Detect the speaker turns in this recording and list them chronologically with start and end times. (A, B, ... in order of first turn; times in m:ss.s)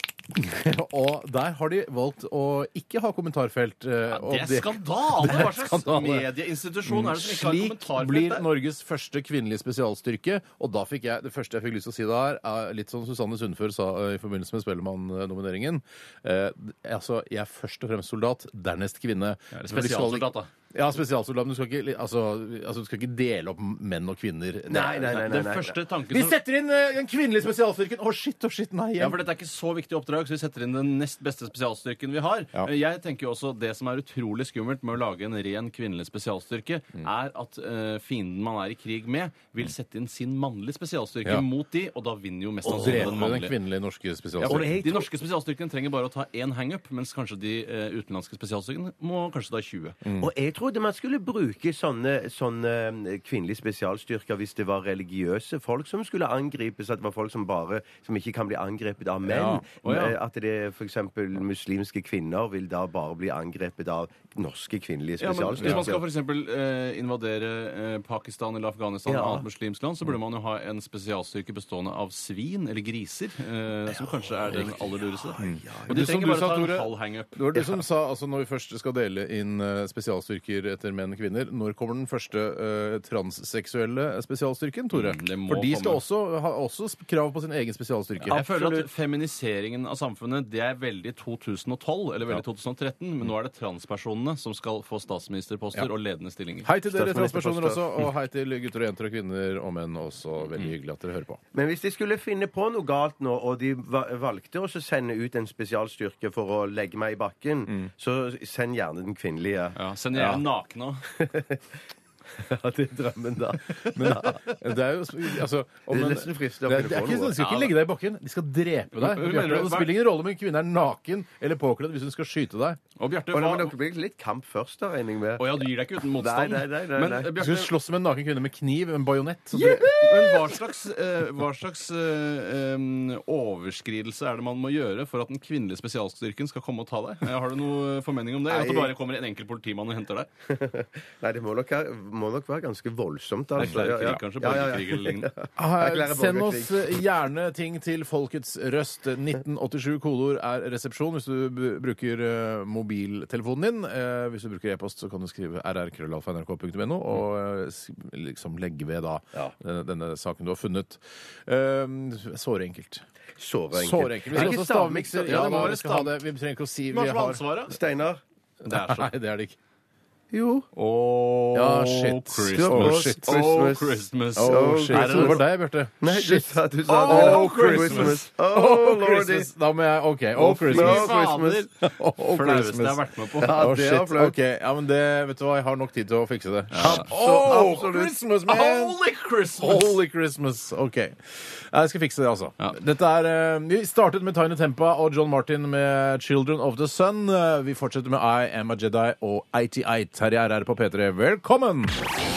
0:00.3-0:06.2 A
0:04.1-0:08.4 B
0:06.9-0:25.3 A
0:19.5-0:20.5 B
0:24.7-0:25.7 C
0:24.7-0:26.4 B
0:26.1-0:29.2 A
0:29.0-0:43.6 B
0:42.6-0:44.8 A
0:44.4-0:50.0 B
0:44.4-0:45.1 C
0:50.0-0:50.3 A
0:50.2-1:06.0 C
0:59.2-0:59.6 A
0:59.8-1:00.2 B
1:05.2-1:17.8 B
1:05.6-1:05.9 A
1:09.1-1:09.4 C
1:15.4-1:16.0 C
1:15.4-1:28.4 A
1:24.9-1:26.0 B
1:28.3-1:28.9 C
1:28.3-1:36.7 B
1:36.6-1:41.4 A
1:36.9-1:37.8 C
1:41.5-1:49.8 C
1:49.8-1:51.1 B
1:50.1-1:50.4 A
1:51.1-1:51.6 C
1:52.3-1:54.6 C
1:53.8-2:02.8 A
1:55.9-1:57.4 C
1:57.3-1:57.7 B
1:58.9-1:59.9 B
2:03.0-2:03.8 B
2:03.3-2:05.5 C
2:05.4-2:07.7 B
2:06.1-2:07.4 C
2:07.4-2:09.9 A
2:09.6-2:10.6 C
2:09.6-2:20.3 B
2:18.5-2:18.9 C
2:20.5-2:26.9 C
2:23.6-2:25.3 B
2:25.6-2:43.0 A
2:43.4-2:45.8 C
2:43.7-2:47.4 A
2:45.2-2:46.2 B
2:46.9-2:47.8 B
2:47.7-2:48.2 C
2:48.6-2:49.6 A
2:48.6-2:49.1 B
2:50.3-2:50.7 C
2:50.7-2:55.4 B
2:51.5-2:53.2 A
2:52.5-2:55.4 C
2:54.4-3:01.1 A
2:56.0-2:59.5 C
2:56.9-2:58.2 B
3:00.4-3:03.6 B
3:00.6-3:01.6 C
3:01.8-3:09.0 A
3:03.4-3:04.3 C
3:06.7-3:07.8 B
3:06.7-3:08.2 C
3:08.4-3:09.9 B
3:09.6-3:22.0 A